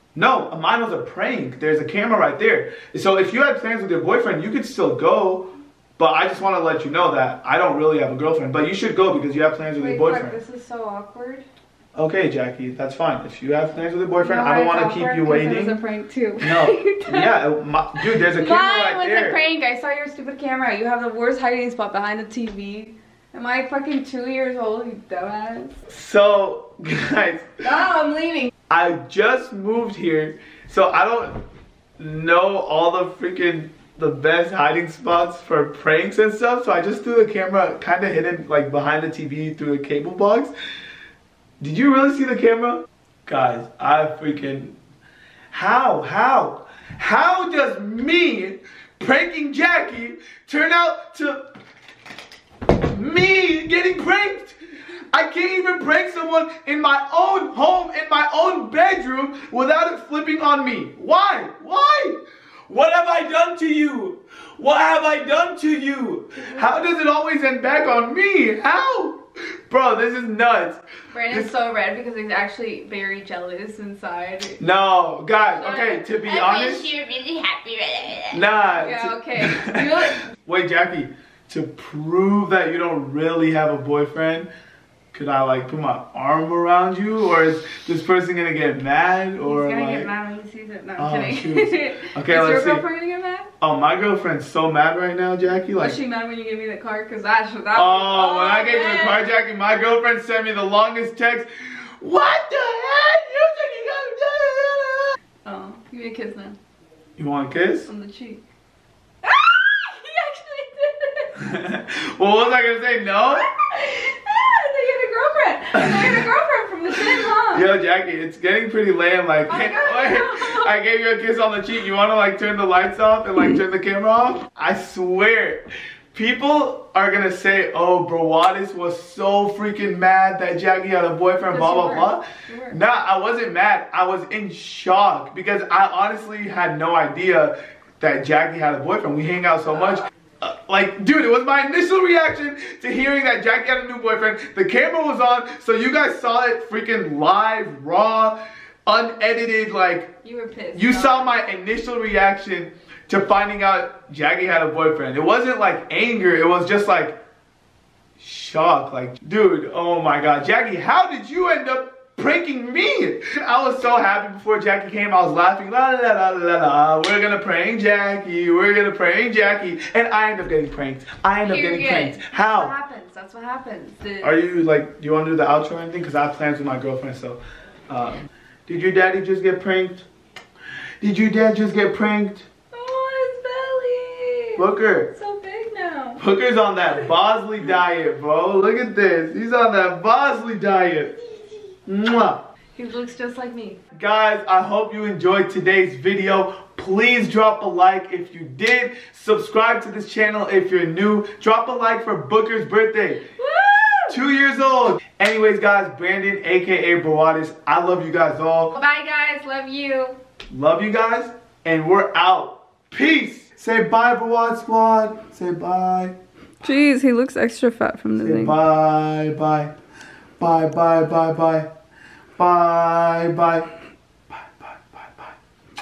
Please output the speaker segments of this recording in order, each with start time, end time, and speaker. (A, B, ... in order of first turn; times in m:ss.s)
0:00.1-0:10.4 A
0:09.8-0:11.4 B
0:11.9-0:15.8 A
0:14.2-0:17.4 B
0:16.4-0:19.4 A
0:18.1-0:25.8 B
0:25.9-0:27.5 A
0:27.6-0:28.5 B
0:28.7-0:31.4 A
0:32.0-0:40.5 A
0:41.6-0:44.8 A
0:45.5-0:51.4 A
0:52.9-0:54.6 A
0:55.1-1:11.5 A
1:06.4-1:06.7 B
1:11.1-1:14.6 B
1:14.6-1:17.0 A
1:15.6-1:16.0 B
1:16.2-1:18.3 C
1:18.3-1:24.5 A
1:18.7-1:20.3 B
1:25.1-1:30.1 A
1:29.4-1:33.5 B
1:31.0-1:32.8 A
1:33.6-1:36.0 A
1:35.7-1:39.3 B
1:37.7-1:45.1 A
1:45.4-1:46.6 B
1:47.2-1:47.9 A
1:47.9-1:48.4 B
1:49.2-1:51.4 B
1:51.4-1:53.5 A
1:53.5-1:57.7 B
1:55.8-1:56.2 A
1:57.5-2:30.2 A
1:59.5-2:00.7 B
2:11.5-2:12.8 B
2:30.2-2:31.4 B
2:30.7-2:37.2 A
2:38.2-2:52.7 A
2:51.4-2:54.4 B
2:54.2-3:00.0 A
3:01.0-3:02.4 A
3:02.7-3:06.2 B
3:04.6-3:05.1 A
3:06.2-3:11.1 A
3:11.8-3:12.4 A
3:12.8-3:13.8 B
3:13.9-3:23.2 A
3:23.4-3:24.2 B
3:24.1-3:28.7 A
3:28.7-3:30.2 B
3:30.5-3:36.1 A
3:36.6-3:38.6 B
3:38.2-3:39.7 A
3:40.4-3:41.7 A
3:42.4-3:43.7 A
3:44.3-3:45.3 A